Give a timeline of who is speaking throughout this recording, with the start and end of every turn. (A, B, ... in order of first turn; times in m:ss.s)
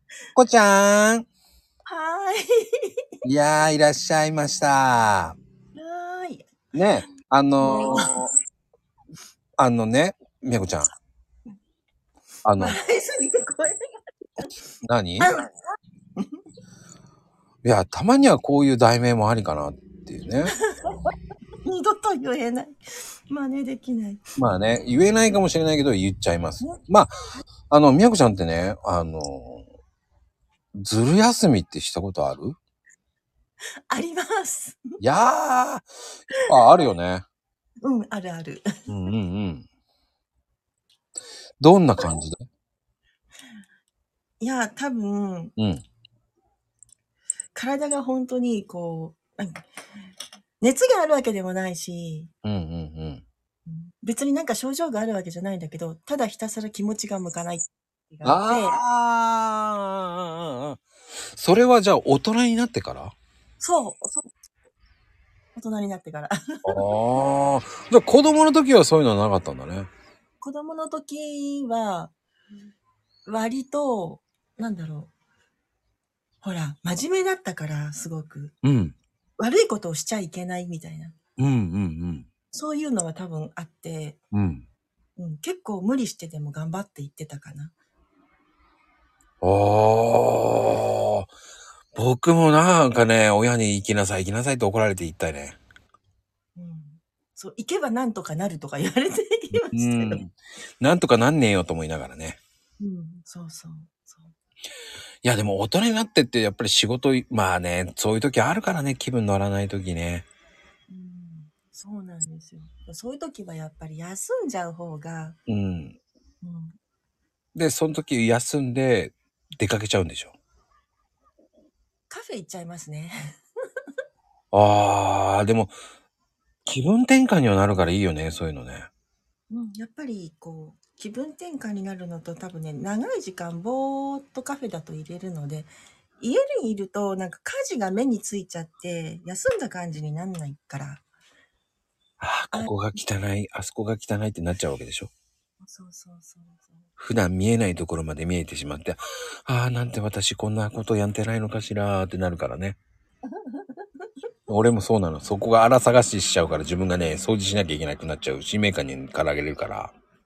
0:00.4-0:01.3 A
0:01.9-0:02.9 B
0:03.2-0:05.4 A
0:05.8-0:06.5 B
0:06.7-0:08.3 A
0:07.6-0:08.2 B
0:09.6-0:10.9 A
0:12.4-0:12.8 A
0:12.6-0:13.8 B
0:14.8-0:15.3 A
0:15.2-0:15.5 B
0:16.2-0:16.4 B
0:17.6-0:20.5 A
0:20.5-0:21.1 B
0:21.6-0:24.2 B
0:24.4-0:27.1 A
0:26.6-0:27.4 B
0:27.7-0:29.6 A
0:30.8-0:32.6 A
0:33.9-0:35.0 B
0:35.0-0:35.9 A
0:36.5-0:37.2 A
0:37.8-0:38.7 B
0:38.9-0:39.7 A
0:41.6-0:42.4 A
0:44.4-0:45.5 B
0:45.6-0:45.8 A
0:47.6-0:49.7 B
0:50.6-0:52.3 B
0:52.4-0:53.2 A
0:53.7-0:58.8 B
0:58.2-1:00.8 A
1:01.3-1:03.2 A
1:03.6-1:04.3 B
1:05.6-1:06.8 B
1:06.7-1:09.9 A
1:10.4-1:12.1 B
1:13.3-1:15.1 B
1:16.4-1:18.6 B
1:18.6-1:19.0 A
1:19.4-1:21.2 B
1:21.4-1:22.3 A
1:22.5-1:24.2 B
1:24.3-1:24.6 A
1:25.2-1:27.7 B
1:29.4-1:31.3 A
1:32.0-1:35.6 A
1:36.6-1:40.2 B
1:39.5-1:42.4 A
1:42.8-1:44.3 B
1:45.2-1:50.3 A
1:50.9-1:55.4 B
1:55.5-1:56.0 A
1:56.4-1:56.8 B
1:57.6-2:00.4 A
2:02.1-2:03.2 B
2:04.5-2:05.8 A
2:06.7-2:08.9 A
2:09.5-2:21.0 B
2:22.2-2:25.1 A
2:22.5-2:22.8 B
2:25.6-2:26.9 B
2:27.0-2:32.8 A
2:33.3-2:34.1 B
2:34.5-2:39.9 A